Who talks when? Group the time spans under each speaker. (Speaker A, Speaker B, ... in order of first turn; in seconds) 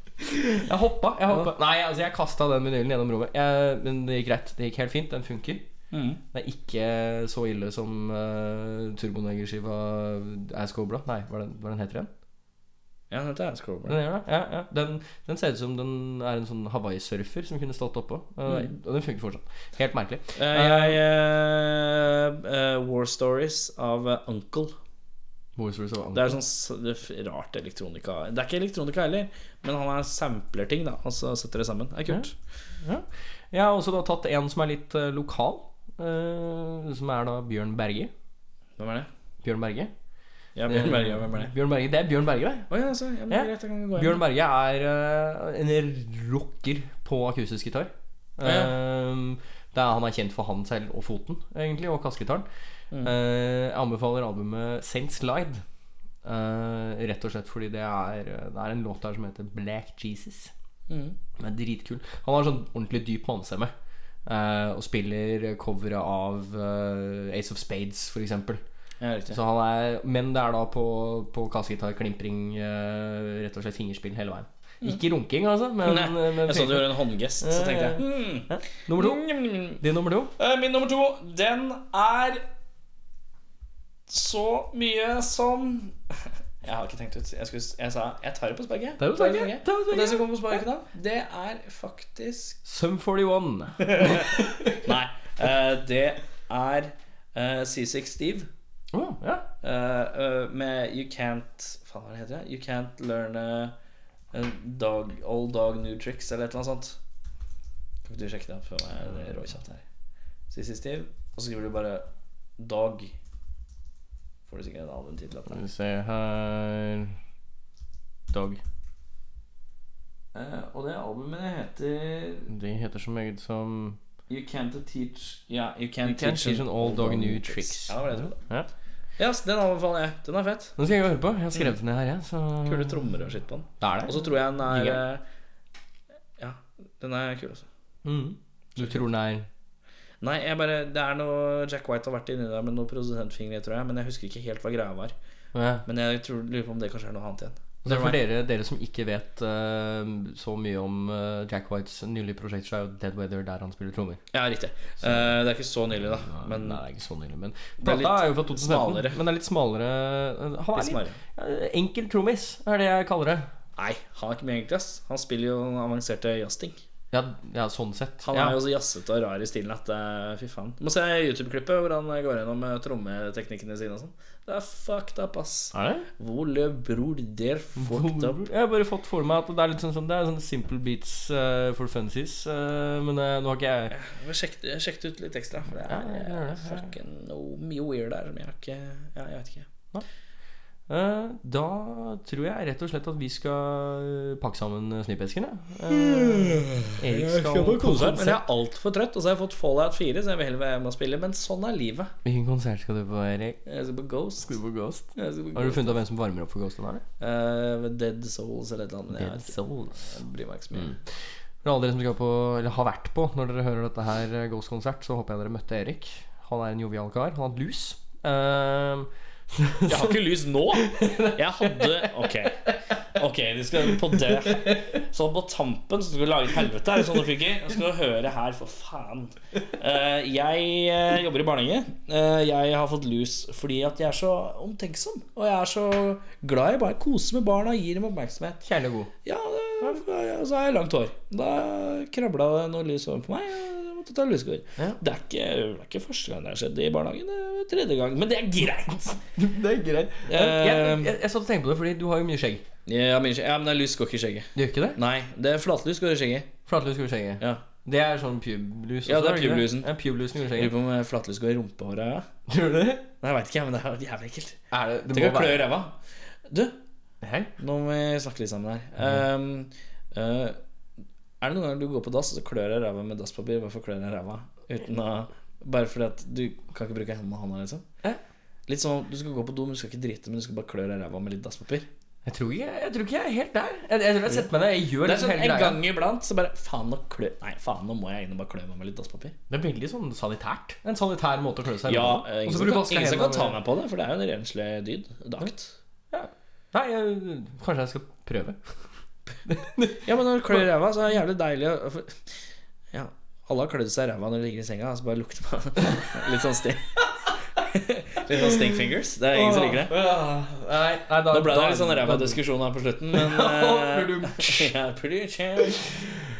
Speaker A: 0.2-5.6, 6.3-12.1, 13.8-21.0, 25.6-26.4, 32.8-38.1, 39.4-39.9, 40.7-42.7, 43.3-52.5, 53.0-55.6, 56.2-60.5, 61.4-63.7, 64.2-68.6, 69.3-80.3, 89.0-90.6, 92.6-94.8, 98.9-99.5, 115.5-117.2, 118.3-118.6, 122.5-124.0, 126.0-128.7, 130.8-133.1, 133.8-135.0, 138.0-139.5, 145.5-145.8, 147.8-154.2, 155.0-155.4, 156.2-163.5, 167.1-168.6, 175.7-176.1, 177.8-183.9, 185.9-186.9, 190.9-198.4, 202.2-203.6, 204.4-207.0, 209.1-210.2, 210.7-211.0, 211.6-220.2, 220.8-222.3, 224.2-225.0, 238.6-239.1, 249.3-252.6, 254.5-255.0, 256.7-260.7, 262.5-263.1, 264.7-265.7, 267.2-267.5, 282.2-285.8, 289.5-293.6, 296.1-298.6, 299.5-300.5, 309.3-312.4, 313.1-314.7
Speaker B: 5.9-6.2, 13.1-14.0, 20.4-24.7, 26.1-32.4, 38.8-39.1, 40.5-41.5, 42.7-44.2, 48.4-48.7, 60.9-61.1, 69.0-69.4, 75.8-79.8, 80.4-82.4, 84.1-86.0, 86.6-92.6, 93.8-94.3, 94.8-98.5, 99.6-103.7, 104.3-107.0, 108.0-109.8, 110.5-112.1, 112.6-113.1, 114.5-115.6, 120.3-122.5, 124.3-128.4, 129.2-130.8, 132.6-135.2, 136.4-137.7, 138.8-139.0, 140.2-145.1, 145.8-148.2, 154.3-156.8, 157.8-159.2, 160.7-161.2, 163.8-166.8, 168.2-178.4, 183.9-189.7, 195.9-202.1, 203.7-204.6, 205.1-206.0, 207.2-211.0, 219.9-238.6, 239.2-249.2, 250.3-251.2, 252.8-256.5, 259.1-259.9, 260.5-262.3, 263.2-264.6, 265.1-266.0, 266.5-266.8, 267.6-270.6, 271.4-277.9, 278.7-281.9, 285.0-289.4, 291.8-295.7, 300.0-302.2, 302.9-306.8, 307.6-309.9, 311.3-315.8